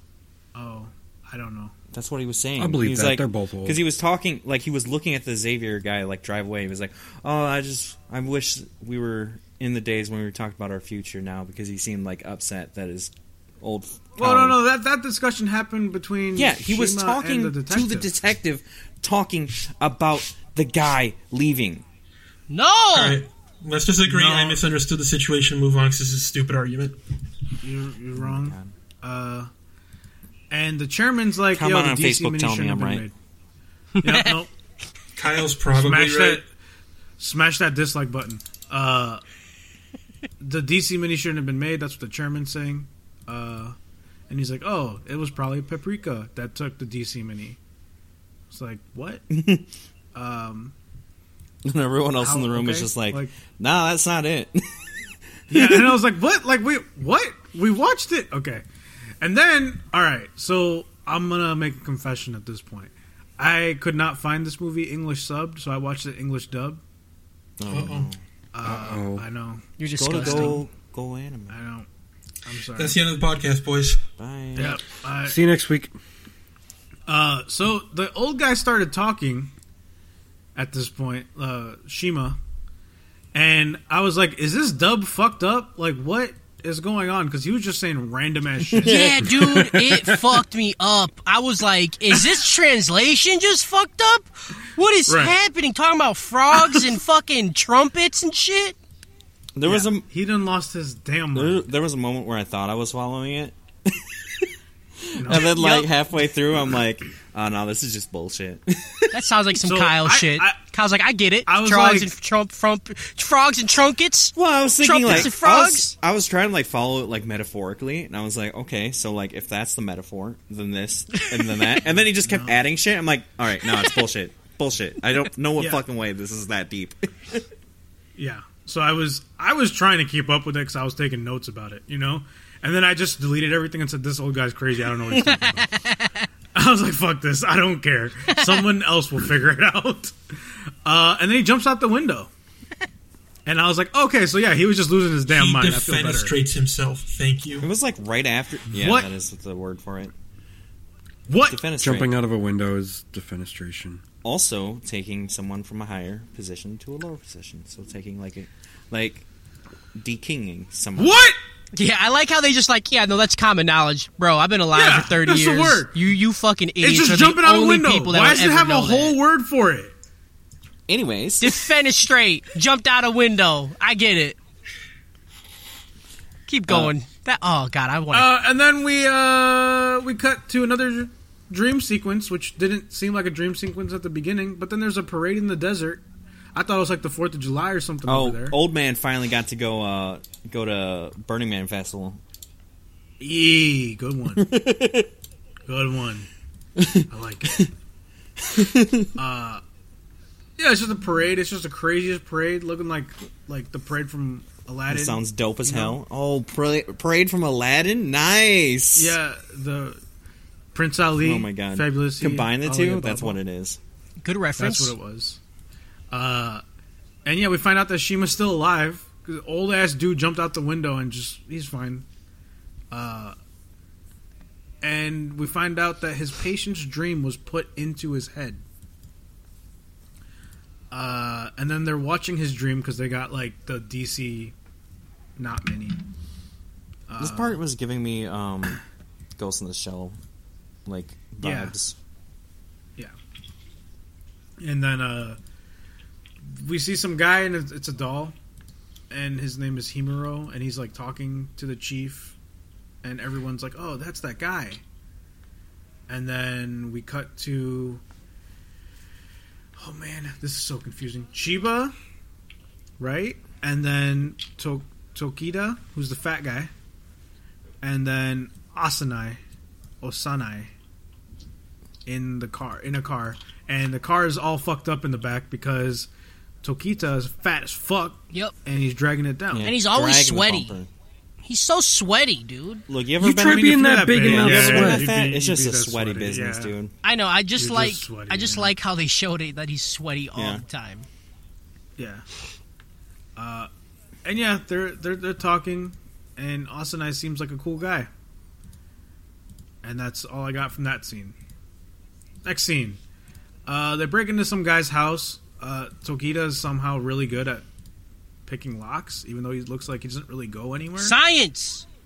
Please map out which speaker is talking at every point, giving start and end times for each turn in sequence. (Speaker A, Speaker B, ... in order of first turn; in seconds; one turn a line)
Speaker A: 0.5-1.7
Speaker B: 1.9-14.6
Speaker C: 2.6-3.8
Speaker A: 14.2-18.1
Speaker B: 16.3-21.8
Speaker D: 22.5-23.2
Speaker E: 22.9-27.0
Speaker A: 24.1-24.6
Speaker A: 27.6-29.5
Speaker B: 28.1-28.7
Speaker A: 30.5-33.1
Speaker B: 31.5-33.0
Speaker D: 34.0-34.4
Speaker A: 34.0-34.5
Speaker E: 35.1-36.4
Speaker A: 35.7-36.4
Speaker A: 37.2-39.2
Speaker A: 40.4-43.8
Speaker A: 44.3-47.6
Speaker A: 48.5-49.2
Speaker B: 49.3-49.6
Speaker A: 50.1-50.7
Speaker B: 51.6-54.9
Speaker A: 52.2-53.3
Speaker B: 55.5-56.0
Speaker A: 55.5-58.6
Speaker A: 59.2-66.8
Speaker B: 67.6-68.2
Speaker E: 67.7-68.1
Speaker A: 68.5-70.6
Speaker C: 68.6-69.2
Speaker D: 69.8-70.6
Speaker B: 70.0-71.6
Speaker A: 71.5-71.9
Speaker A: 72.4-73.0
Speaker E: 72.7-74.0
Speaker B: 74.2-74.8
Speaker A: 74.5-75.4
Speaker C: 75.2-75.9
Speaker A: 77.1-79.5
Speaker A: 80.5-82.4
Speaker A: 83.3-88.9
Speaker B: 88.7-89.8
Speaker D: 88.8-98.8
Speaker A: 95.1-95.3
Speaker B: 99.5-100.0
Speaker A: 99.6-101.7
Speaker B: 101.3-104.5
Speaker B: 105.0-109.1
Speaker A: 105.2-105.5
Speaker D: 105.3-105.9
Speaker D: 109.1-115.9
Speaker A: 109.5-110.6
Speaker A: 111.5-112.1
Speaker B: 114.3-127.4
Speaker D: 121.2-121.6
Speaker A: 122.2-122.6
Speaker A: 125.6-125.8
Speaker A: 128.2-135.7
Speaker D: 135.5-136.3
Speaker A: 136.5-140.3
Speaker D: 138.3-138.7
Speaker A: 140.8-142.3
Speaker A: 143.4-146.3
Speaker E: 145.2-147.7
Speaker B: 147.6-150.1
Speaker A: 148.7-149.1
Speaker A: 151.3-151.6
Speaker B: 151.4-152.1
Speaker C: 151.8-154.0
Speaker B: 154.2-159.2
Speaker B: 159.9-161.2
Speaker A: 161.0-161.4
Speaker D: 161.7-169.2
Speaker A: 164.7-165.9
Speaker A: 166.8-169.9
Speaker B: 170.9-171.6
Speaker D: 171.4-174.4
Speaker D: 176.5-178.3
Speaker A: 178.1-186.0
Speaker A: 186.5-188.6
Speaker B: 188.1-192.2
Speaker A: 193.2-194.5
Speaker B: 194.4-195.1
Speaker A: 195.7-196.3
Speaker B: 196.8-197.7
Speaker A: 197.1-197.7
Speaker B: 198.4-199.1
Speaker A: 199.2-199.6
Speaker A: 200.6-206.0
Speaker B: 204.9-209.2
Speaker A: 208.9-210.0
Speaker A: 210.7-213.4
Speaker B: 211.2-213.8
Speaker D: 214.2-214.9
Speaker A: 214.6-215.4
Speaker A: 216.1-216.6
Speaker A: 217.2-222.0
Speaker A: 222.9-223.3
Speaker A: 224.8-228.6
Speaker A: 230.9-234.5
Speaker A: 235.4-236.0
Speaker A: 237.1-237.6
Speaker B: 237.2-238.8
Speaker B: 239.4-240.2
Speaker B: 240.8-241.9
Speaker A: 241.4-241.7
Speaker A: 244.6-245.4
Speaker A: 246.4-248.3
Speaker A: 249.1-252.3
Speaker A: 253.0-254.8
Speaker A: 256.1-258.0
Speaker A: 259.8-261.9
Speaker A: 263.0-266.7
Speaker A: 267.8-269.4
Speaker A: 270.0-270.7
Speaker A: 272.1-276.1
Speaker A: 276.6-279.7
Speaker B: 279.5-280.9
Speaker D: 279.6-280.8
Speaker D: 281.4-282.8
Speaker B: 282.9-286.9
Speaker C: 283.2-285.1
Speaker A: 283.4-286.7
Speaker D: 287.0-291.1
Speaker A: 287.6-288.7
Speaker B: 290.4-290.6
Speaker A: 292.0-292.2
Speaker A: 293.4-293.7
Speaker A: 294.2-298.1
Speaker A: 299.8-301.4
Speaker A: 302.4-303.0
Speaker A: 303.6-307.6
Speaker A: 308.4-311.1
Speaker D: 311.0-311.9